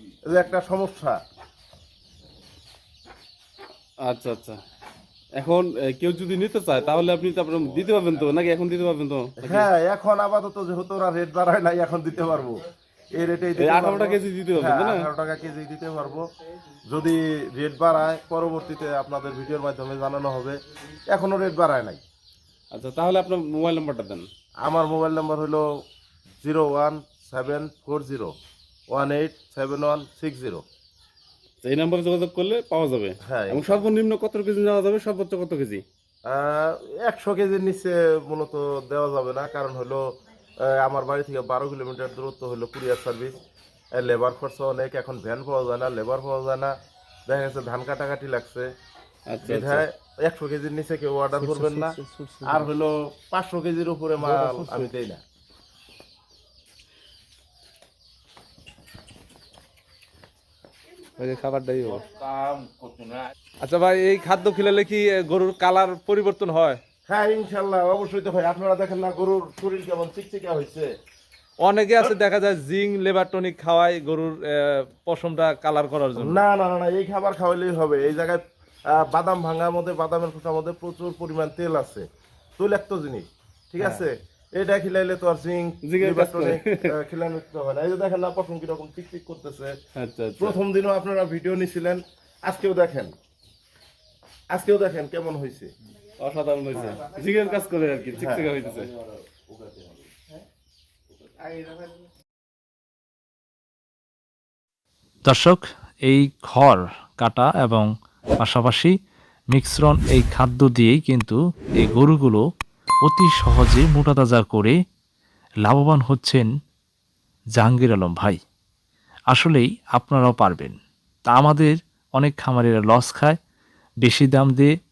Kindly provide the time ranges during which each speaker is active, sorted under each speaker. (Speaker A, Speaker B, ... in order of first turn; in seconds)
Speaker A: 0.3-1.2, 9.4-12.6, 13.1-16.3, 16.9-20.6, 21.1-22.0, 24.6-25.6, 26.4-28.3, 28.9-30.6, 33.2-33.8, 36.3-40.1, 40.6-43.4, 43.9-46.7, 47.3-48.7, 49.5-55.2, 67.1-70.9, 76.2-82.1, 82.6-89.8, 90.4-93.1, 94.5-95.7, 98.1-98.6
Speaker B: 4.0-4.6, 5.4-9.7, 13.6-15.1, 22.7-24.3, 31.6-35.8, 49.3-49.9, 54.2-54.6, 85.8-86.9, 90.0-90.6, 96.2-98.9
Speaker C: 51.7-52.6, 61.2-62.0, 63.6-66.8, 71.6-76.4, 83.8-84.0
Speaker D: 105.2-108.9, 109.5-112.4, 113.0-114.8, 115.7-116.5, 117.6-118.4, 119.3-120.8, 121.3-123.4, 124.0-124.7